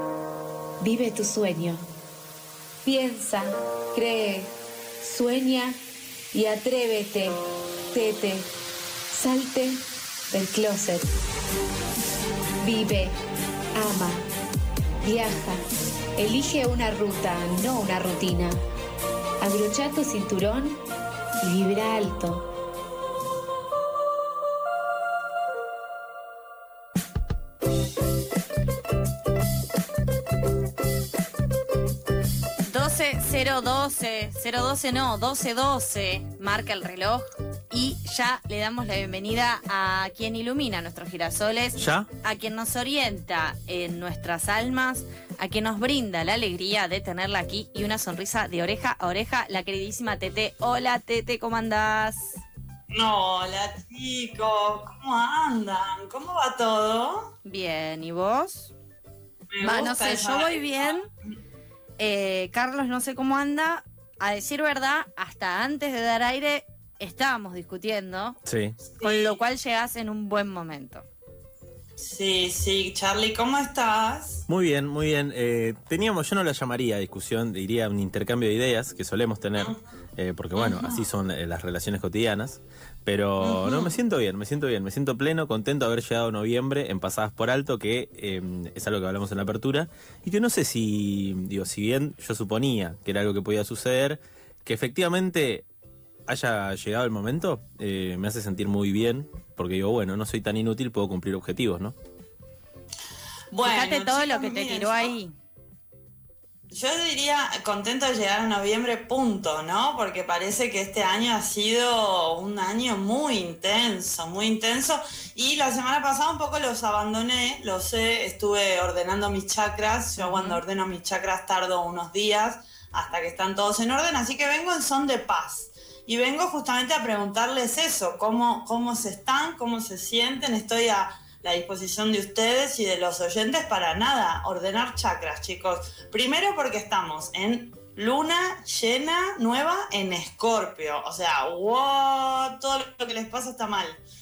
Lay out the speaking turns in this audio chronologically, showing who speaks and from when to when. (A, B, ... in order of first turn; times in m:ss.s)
0:00.8-0:01.8 A
0:02.8-0:05.8 A
0:06.3-0:07.4 A
0:07.9-0:08.5 A
0:09.1-0:11.1 A
0:12.6-0:13.2 A
0:13.8-0:14.3 A
0:15.0-0:15.6 A
0:16.2-0:18.6 A
0:19.4-0:20.8 A
0:21.4-0:22.5 A
0:32.7-0:52.4 B
0:41.8-0:42.1 C
0:52.9-0:57.3 D
0:57.4-0:58.7 B
0:59.5-1:01.3 D
0:59.6-1:01.1 B
1:02.0-1:08.4 B
1:08.4-1:08.8 C
1:08.9-1:09.4 D
1:09.0-1:11.0 B
1:12.0-1:14.4 D
1:14.5-1:35.7 C
1:20.6-1:21.0 D
1:23.4-1:23.9 D
1:36.3-1:42.0 C
1:43.5-1:45.2 D
1:43.6-1:45.3 B
1:46.7-2:24.0 D
2:00.2-2:00.6 B